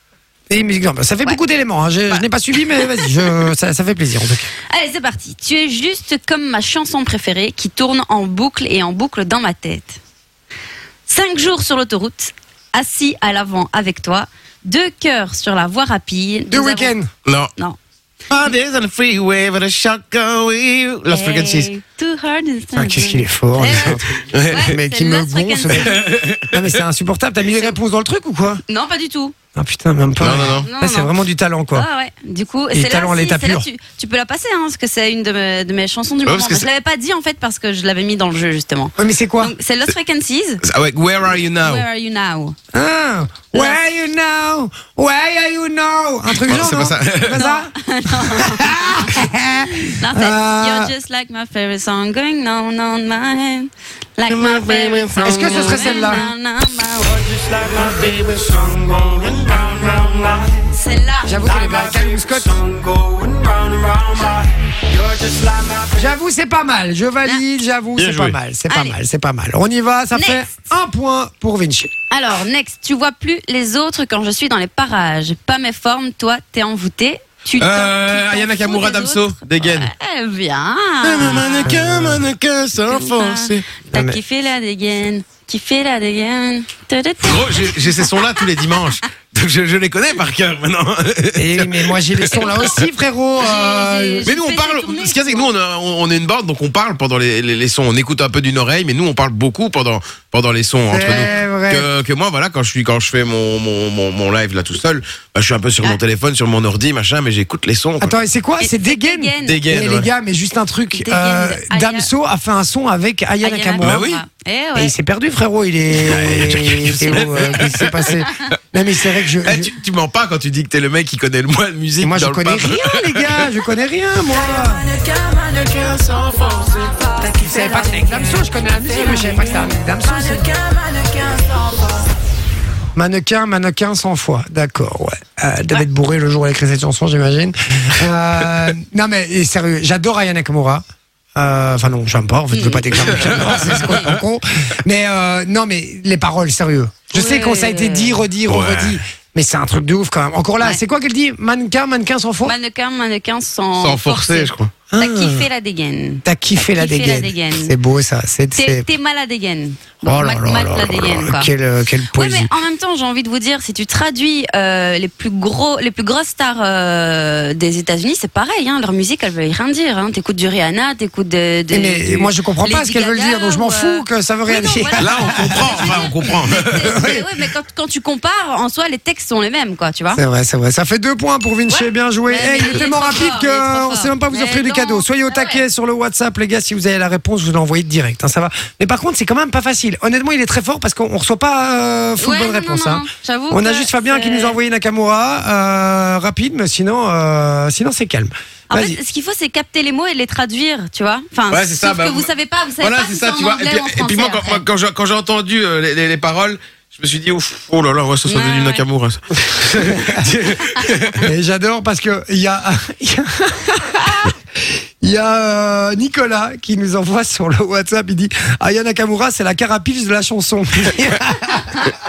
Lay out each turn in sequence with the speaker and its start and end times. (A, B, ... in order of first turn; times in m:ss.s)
0:00.5-0:04.5 A
0:02.1-0:03.5 B
0:04.7-0:10.0 B
0:11.1-0:16.9 B
0:16.5-0:17.1 A
0:17.2-0:17.5 C
0:18.3-0:21.7 C
0:21.1-0:26.1 B
0:22.7-0:28.6 A
0:23.7-0:24.8 C
0:25.7-0:26.8 C
0:28.7-0:29.3 B
0:29.5-0:31.8 A
0:30.2-0:30.7 C
0:30.6-0:31.1 B
0:31.7-0:40.6 B
0:32.7-0:33.7 A
0:36.2-0:36.7 C
0:39.0-0:39.5 A
0:40.6-0:41.8 C
0:41.6-0:42.6 B
0:42.7-0:50.9 A
0:46.3-0:47.4 C
0:47.3-0:57.3 B
0:54.3-0:56.1 C
0:55.2-0:56.2 A
0:57.1-1:00.6 C
1:00.7-1:01.6 B
1:01.2-1:02.6 A
1:01.5-1:05.8 C
1:05.9-1:11.9 A
1:08.0-1:08.4 C
1:08.7-1:09.0 B
1:10.1-1:10.5 B
1:12.1-1:21.8 B
1:17.6-1:19.9 C
1:21.0-1:23.6 C
1:21.6-1:22.2 A
1:22.9-1:28.7 B
1:23.9-1:24.2 A
1:27.2-1:32.8 C
1:31.4-1:34.3 A
1:32.3-1:32.8 B
1:33.4-1:35.5 B
1:34.2-1:48.1 C
1:40.9-1:41.9 A
1:48.0-1:54.1 A
1:48.6-1:49.6 B
1:49.4-1:50.1 C
1:51.0-1:52.1 B
1:53.4-1:54.9 B
1:53.8-1:54.2 C
1:54.8-1:59.7 A
1:55.9-1:58.1 C
1:57.1-1:57.5 B
1:59.2-2:03.5 C
2:02.0-2:04.9 A
2:04.9-2:07.3 C
2:07.4-2:09.5 B
2:07.4-2:10.5 A
2:13.0-2:20.8 A
2:21.4-2:32.5 A
2:22.5-2:23.9 B
2:23.0-2:24.1 C
2:27.1-2:28.3 B
2:28.4-2:29.0 C
2:32.4-2:37.7 B
2:33.8-2:34.7 C
2:34.9-2:35.4 A
2:36.2-2:38.9 A
2:38.5-2:41.5 B
2:40.0-2:42.5 A
2:42.1-3:00.2 B
2:51.7-2:57.2 A
2:55.0-2:57.1 C
3:00.1-3:19.0 A
3:01.7-3:05.6 B
3:12.2-3:14.6 B
3:18.7-3:24.6 B
3:21.5-3:22.3 C
3:22.8-3:31.3 C
3:28.3-3:28.8 B
3:30.0-3:30.2 A
3:31.2-3:41.9 A